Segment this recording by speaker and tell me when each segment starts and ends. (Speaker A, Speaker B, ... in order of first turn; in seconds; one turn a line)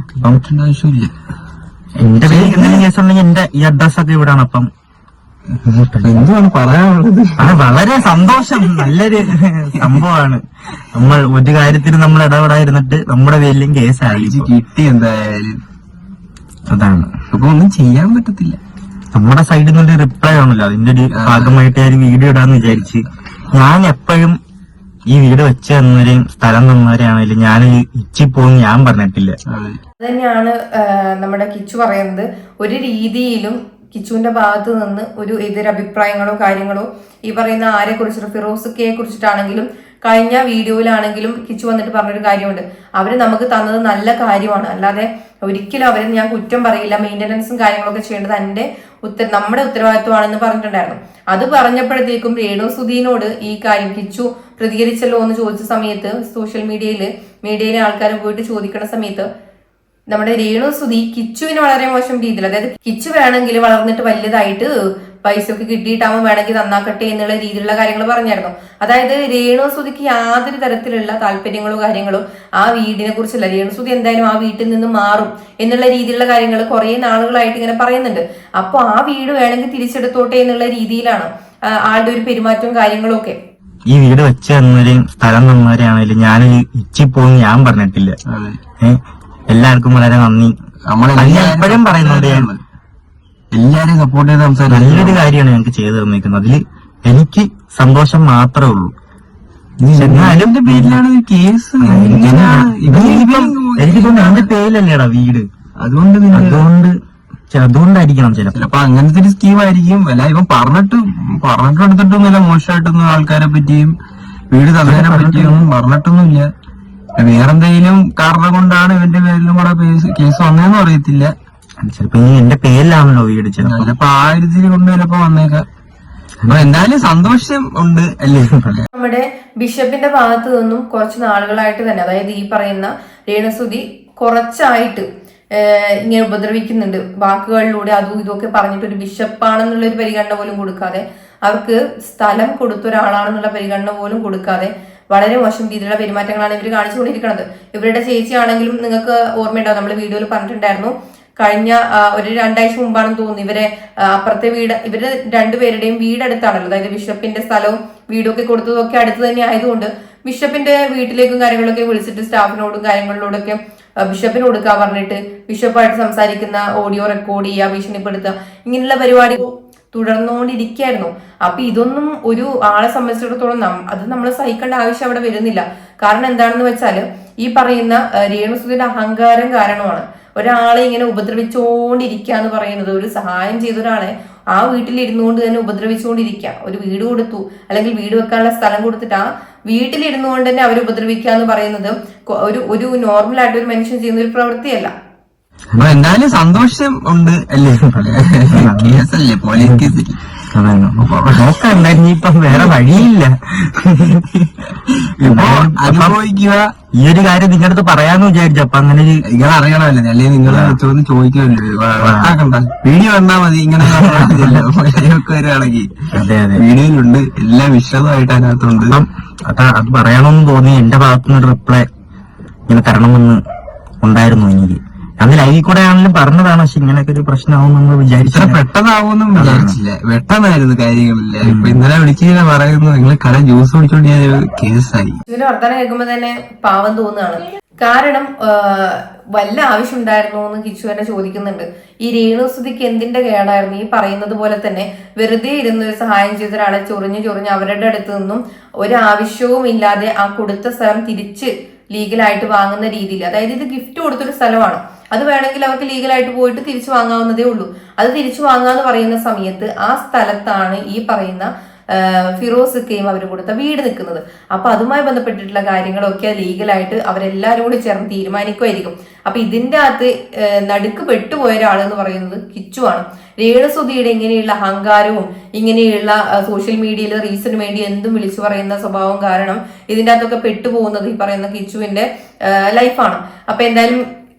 Speaker A: 0.1-1.1
Speaker B: 2.0-4.7
Speaker A: 2.2-2.8
Speaker B: 5.6-6.3
Speaker A: 6.0-9.0
Speaker B: 7.4-14.5
Speaker A: 14.1-15.6
Speaker B: 16.7-17.1
Speaker A: 17.3-18.6
Speaker B: 19.1-24.4
Speaker A: 21.1-21.6
Speaker B: 25.1-29.4
Speaker A: 29.5-29.8
Speaker C: 30.0-59.3
Speaker C: 60.1-64.7
Speaker C: 65.2-83.4
Speaker B: 83.9-88.2
Speaker A: 88.3-88.6
Speaker B: 88.8-90.5
Speaker A: 90.9-92.6
Speaker B: 91.2-92.5
Speaker A: 93.5-95.2
Speaker B: 94.7-98.9
Speaker A: 99.8-104.5
Speaker B: 99.9-101.0
Speaker B: 101.8-105.5
Speaker A: 105.8-106.6
Speaker B: 106.3-106.9
Speaker B: 107.5-108.6
Speaker A: 108.5-113.9
Speaker A: 114.5-116.5
Speaker B: 114.8-115.7
Speaker A: 117.2-121.3
Speaker B: 121.8-123.9
Speaker A: 123.6-125.6
Speaker B: 126.4-127.1
Speaker A: 126.5-128.8
Speaker C: 128.9-194.9
Speaker B: 195.7-196.2
Speaker A: 195.8-200.2
Speaker B: 197.8-199.1
Speaker B: 199.6-199.9
Speaker B: 200.5-204.2
Speaker A: 201.0-202.0
Speaker A: 202.5-203.0
Speaker A: 204.1-206.7
Speaker B: 205.2-206.2
Speaker B: 207.0-209.2
Speaker A: 209.2-215.9
Speaker B: 210.4-210.8
Speaker B: 212.0-212.3
Speaker B: 213.9-214.6
Speaker B: 216.1-216.6
Speaker A: 216.5-219.0
Speaker B: 218.9-221.8
Speaker B: 222.7-223.4
Speaker B: 224.0-228.6
Speaker A: 228.3-235.2
Speaker B: 229.3-229.8
Speaker B: 231.4-231.8
Speaker C: 235.3-284.0